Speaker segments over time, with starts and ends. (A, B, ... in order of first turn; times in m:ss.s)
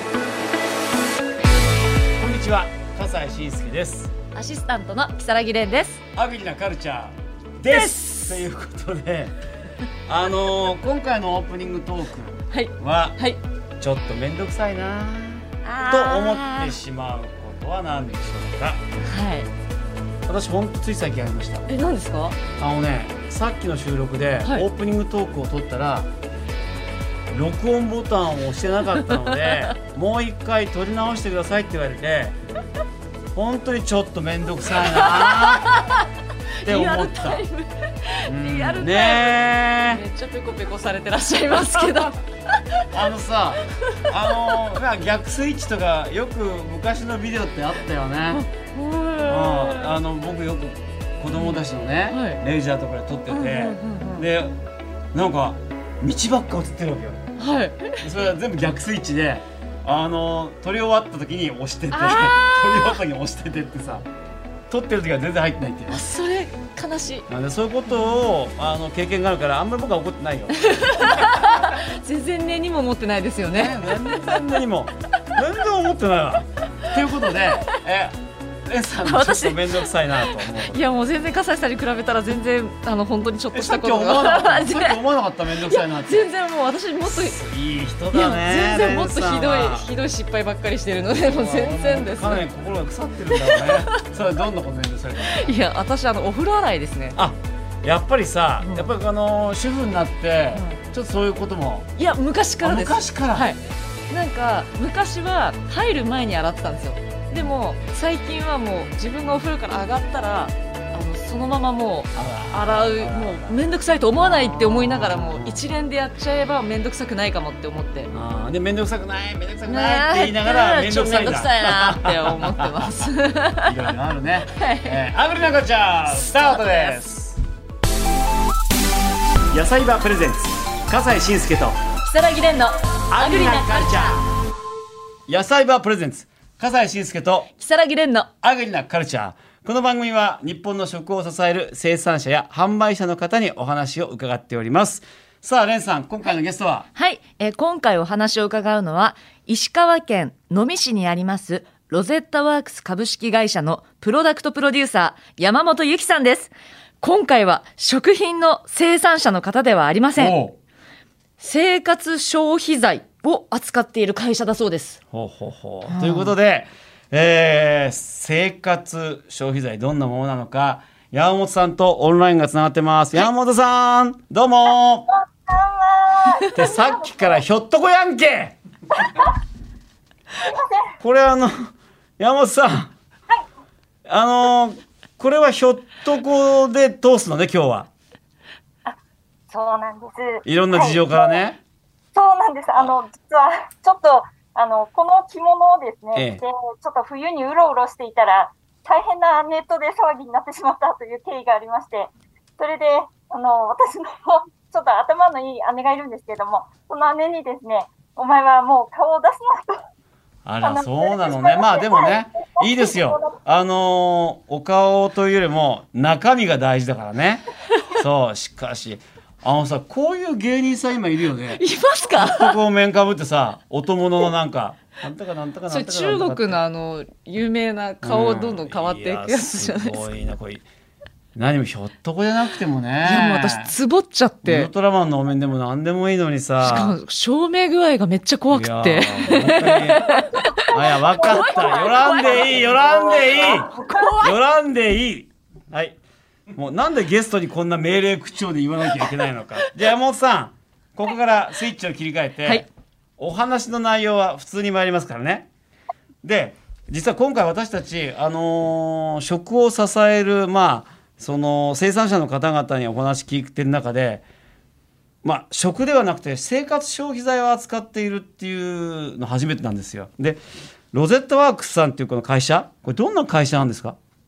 0:02.2-0:04.1 A
0:04.3-0:06.0 B
0:06.1-0:09.4 A
0:07.7-0:08.4 B
0:10.1-0:13.2 A
0:12.5-0:13.4 B
0:13.8-0:18.8 A
0:15.6-0:16.7 B
0:19.0-0:19.5 B
0:20.3-0:21.7 A
0:21.7-0:22.4 B
0:22.6-0:26.1 A
0:27.3-0:32.4 A
0:29.0-0:29.7 B
0:33.3-0:35.8 A
0:34.7-0:36.1 B
0:36.6-0:37.4 A
0:36.6-0:42.9 B
0:38.2-0:40.0 A
0:42.9-0:48.4 A
0:43.9-0:44.5 B
0:48.3-0:50.0 B
0:49.3-0:54.6 A
0:51.3-0:52.4 B
0:53.3-0:54.3 B
0:55.1-0:57.2 A
0:57.4-0:58.0 B
0:58.0-1:04.1 A
1:01.9-1:03.0 B
1:04.7-1:06.1 A
1:05.9-1:07.3 B
1:07.3-1:11.6 A
1:10.6-1:14.5 B
1:13.5-1:20.8 A
1:16.9-1:17.7 B
1:19.0-1:25.0 B
1:23.5-1:26.3 A
1:25.6-1:27.4 B
1:27.0-1:29.9 A
1:28.1-1:32.4 B
1:31.1-1:35.6 A
1:33.3-1:33.9 B
1:35.2-1:37.2 B
1:37.2-1:41.9 A
1:38.6-1:38.9 B
1:40.5-1:40.8 B
1:42.0-1:43.6 B
1:42.6-1:43.5 A
1:44.1-1:58.1 B
1:52.1-1:53.6 A
1:54.2-1:55.6 A
1:58.1-2:03.1 A
1:59.7-2:03.9 B
2:03.6-2:07.4 A
2:04.5-2:05.0 B
2:06.1-2:07.0 B
2:09.5-2:11.8 A
2:12.0-2:14.2 B
2:13.1-2:14.3 A
2:15.3-2:17.5 A
2:17.6-2:18.3 B
2:18.4-2:26.9 A
2:26.9-2:40.4 B
2:40.2-2:40.6 A
2:41.4-2:45.0 B
2:45.1-2:55.1 A
2:45.9-2:46.3 B
2:55.1-2:57.4 C
2:56.5-2:58.6 A
2:59.0-2:59.3 C
3:00.4-3:00.9 C
3:01.0-3:02.9 A
3:04.0-3:07.9 A
3:09.5-3:11.4 C
3:10.4-3:11.6 A
3:12.1-3:29.8 C
3:16.2-3:16.4 A
3:30.4-3:46.6 A
3:30.6-3:33.4 C
3:41.6-3:42.6 B
3:45.7-3:50.0 B
3:48.0-3:50.7 A
3:51.3-3:53.7 A
3:53.0-3:54.7 B
3:54.4-3:56.9 A
3:56.6-4:04.4 B
3:58.5-4:06.0 A
4:00.5-4:04.2 C
4:06.5-4:12.7 A
4:13.2-4:15.5 A
4:16.2-4:24.2 A
4:25.2-4:30.4 A
4:30.9-4:34.0 A